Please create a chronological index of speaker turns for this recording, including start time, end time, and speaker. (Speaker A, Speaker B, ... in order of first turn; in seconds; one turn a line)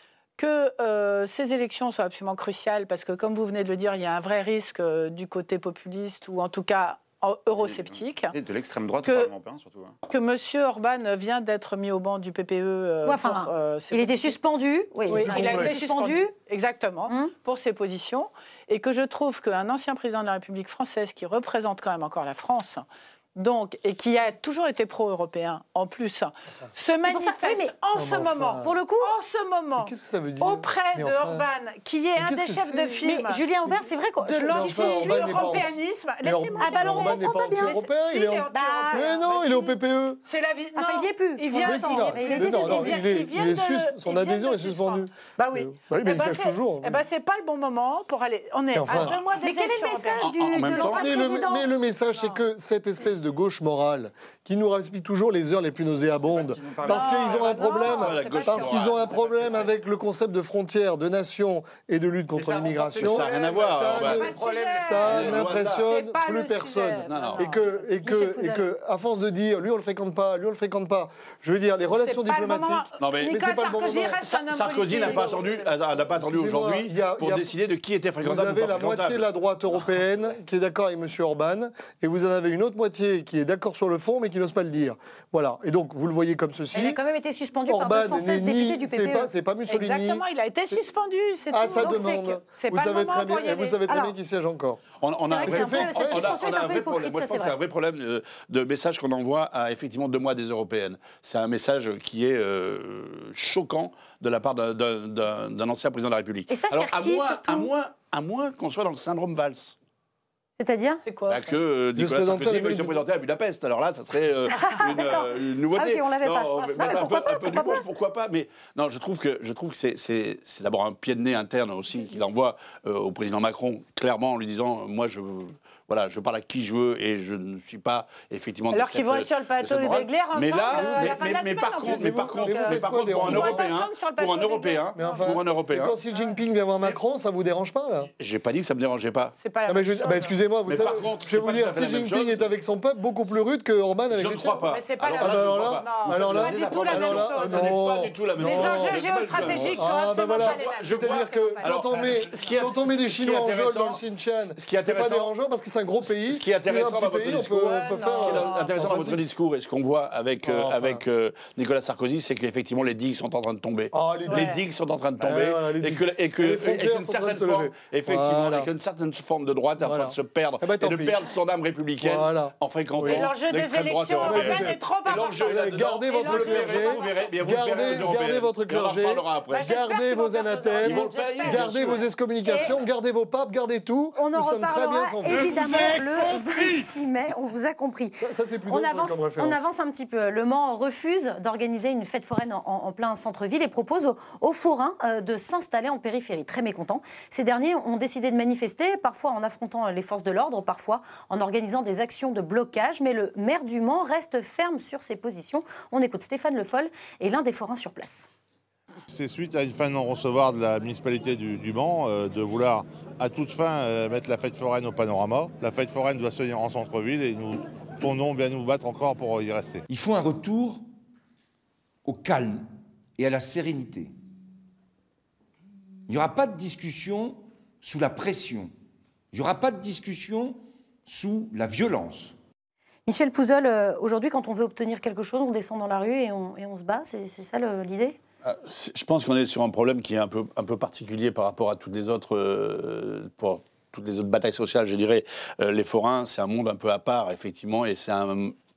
Speaker A: 0.4-8.3
Speaker B: 7.6-9.9
Speaker A: 9.0-9.3
Speaker A: 10.0-14.4
Speaker C: 13.0-16.3
Speaker A: 15.0-33.4
Speaker D: 15.1-15.7
Speaker C: 27.0-27.7
Speaker D: 27.9-28.7
Speaker C: 28.6-29.1
Speaker D: 29.8-31.4
Speaker D: 32.2-33.0
Speaker C: 33.0-35.6
Speaker A: 34.2-51.2
Speaker D: 34.5-40.2
Speaker C: 36.6-37.8
Speaker C: 38.5-39.1
Speaker C: 40.8-43.1
Speaker D: 41.6-47.0
Speaker D: 48.7-49.1
Speaker C: 49.4-51.7
Speaker E: 50.2-51.0
Speaker D: 50.7-74.2
Speaker A: 52.1-52.4
Speaker B: 56.2-57.8
Speaker A: 56.9-59.6
Speaker E: 57.8-59.7
Speaker B: 62.3-65.2
Speaker E: 63.0-64.3
Speaker A: 64.0-67.9
Speaker E: 65.0-65.9
Speaker E: 67.1-67.5
Speaker C: 68.0-68.7
Speaker A: 71.9-75.7
Speaker E: 73.0-73.5
Speaker E: 74.0-79.3
Speaker D: 75.0-75.3
Speaker D: 76.2-77.5
Speaker D: 78.2-87.0
Speaker C: 86.7-89.3
Speaker D: 87.7-90.2
Speaker A: 89.7-93.8
Speaker D: 91.5-94.8
Speaker C: 91.8-92.4
Speaker C: 93.9-94.1
Speaker E: 95.0-109.7
Speaker C: 95.2-97.5
Speaker D: 95.4-96.4
Speaker C: 106.5-107.7
Speaker C: 110.6-111.0
Speaker A: 111.0-111.6
Speaker E: 111.3-136.0
Speaker D: 112.0-113.0
Speaker C: 114.5-117.8
Speaker A: 128.7-135.4
Speaker D: 130.7-131.2
Speaker D: 131.8-133.6
Speaker D: 134.9-138.1
Speaker A: 136.1-136.3
Speaker E: 138.2-139.3
Speaker A: 139.3-140.4
Speaker D: 139.7-144.6
Speaker E: 140.6-142.5
Speaker E: 144.1-154.0
Speaker A: 144.5-152.7
Speaker D: 145.1-159.2
Speaker E: 154.6-155.3
Speaker E: 156.1-179.8
Speaker A: 157.5-158.9
Speaker D: 160.4-161.0
Speaker D: 163.9-164.5
Speaker A: 164.3-164.6
Speaker D: 165.2-168.7
Speaker D: 169.8-171.1
Speaker D: 172.0-173.3
Speaker A: 173.0-177.3
Speaker D: 174.2-174.8
Speaker D: 175.4-185.6
Speaker A: 179.5-182.0
Speaker E: 180.8-182.0
Speaker C: 184.2-208.3
Speaker D: 188.2-189.6
Speaker F: 209.1-219.8
Speaker G: 219.9-220.8
Speaker G: 222.0-222.7
Speaker G: 223.2-224.1
Speaker G: 226.1-228.7
Speaker G: 229.3-232.3
Speaker C: 233.1-238.2
Speaker E: 238.4-248.5